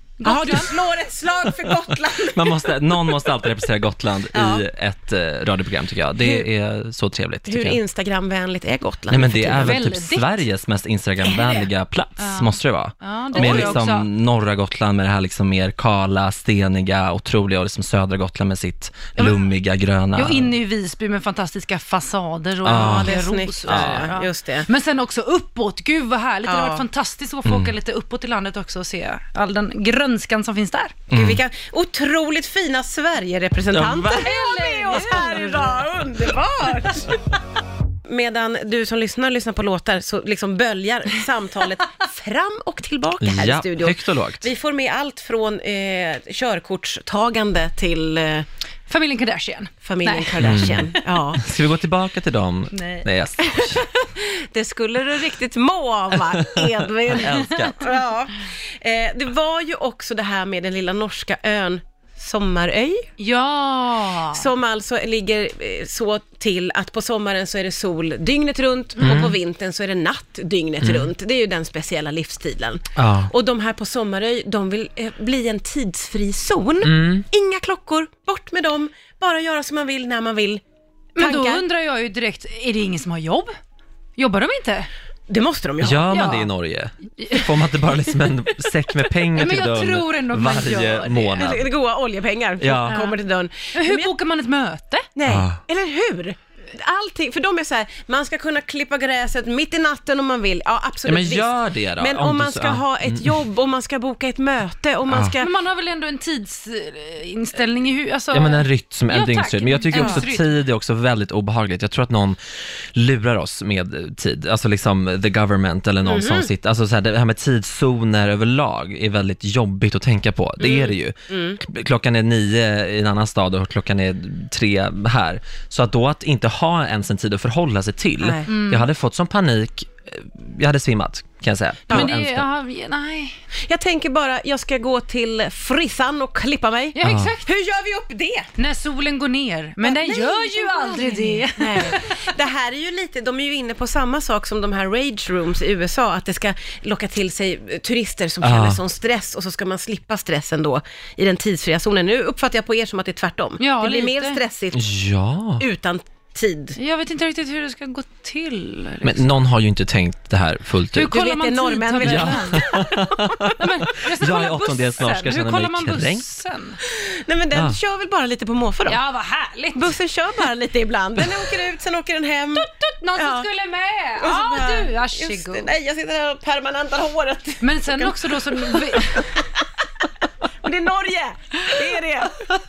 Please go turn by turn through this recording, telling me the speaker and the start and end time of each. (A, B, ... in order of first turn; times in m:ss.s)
0:00.2-0:00.8 A
0:00.2-0:03.4 B
0:02.2-0:07.8 C
0:04.3-0:04.6 B
0:06.2-0:06.5 B
0:07.5-0:09.8 B
0:09.1-0:20.5 C
0:09.6-0:10.4 A
0:11.2-0:11.7 B
0:12.2-0:14.1 A
0:13.3-0:13.8 B
0:19.2-0:19.5 A
0:20.1-0:31.0 A
0:22.6-0:24.1 C
0:22.6-0:24.7 B
0:26.5-0:26.8 B
0:27.4-0:27.7 C
0:31.1-0:31.4 C
0:31.1-0:37.2 B
0:33.7-0:34.3 C
0:34.2-0:35.9 A
0:38.0-0:48.5 B
0:43.2-0:44.4 C
0:48.9-0:51.0 A
0:49.8-0:51.4 B
0:50.4-0:53.8 C
0:52.7-0:53.1 A
0:53.4-1:03.1 B
0:57.1-0:57.9 C
1:03.2-1:04.4 A
1:04.3-1:20.6 B
1:09.0-1:09.3 A
1:09.0-1:09.4 C
1:10.8-1:11.1 C
1:13.0-1:13.3 C
1:16.8-1:17.2 C
1:21.2-1:23.5 A
1:21.2-1:21.6 B
1:24.2-1:24.9 A
1:25.3-1:26.1 B
1:25.8-1:31.7 C
1:26.1-1:26.5 A
1:27.2-1:27.5 A
1:29.4-1:31.4 A
1:31.4-1:34.1 B
1:32.6-1:33.0 C
1:32.9-1:33.2 A
1:33.7-1:35.1 A
1:35.2-1:45.5 B
1:35.3-1:35.6 C
1:41.0-1:43.4 C
1:45.1-1:45.4 C
1:45.4-1:50.6 A
1:48.3-2:12.5 C
1:49.9-1:50.2 B
1:56.0-1:56.5 B
2:00.6-2:01.6 B
2:08.2-2:08.5 B
2:08.5-2:08.9 A
2:11.9-2:12.1 B
2:11.9-2:13.4 A
2:13.7-2:18.5 B
2:17.0-2:17.5 A
2:17.0-2:17.3 C
2:18.6-2:22.3 A
2:19.8-2:34.9 B
2:28.4-2:28.8 C
2:33.6-2:34.4 A
2:34.7-2:35.6 C
2:35.6-2:36.8 B
2:36.8-2:39.3 A
2:39.0-2:41.1 C
2:40.9-2:46.8 A
2:41.1-2:42.8 B
2:42.0-2:43.6 C
2:44.2-2:46.2 C
2:46.9-2:49.0 B
2:47.5-2:47.8 C
2:48.9-2:49.9 A
2:49.7-2:53.5 B
2:52.6-2:55.7 A
2:54.2-2:59.4 B
2:57.6-2:59.4 A
3:00.6-3:02.5 B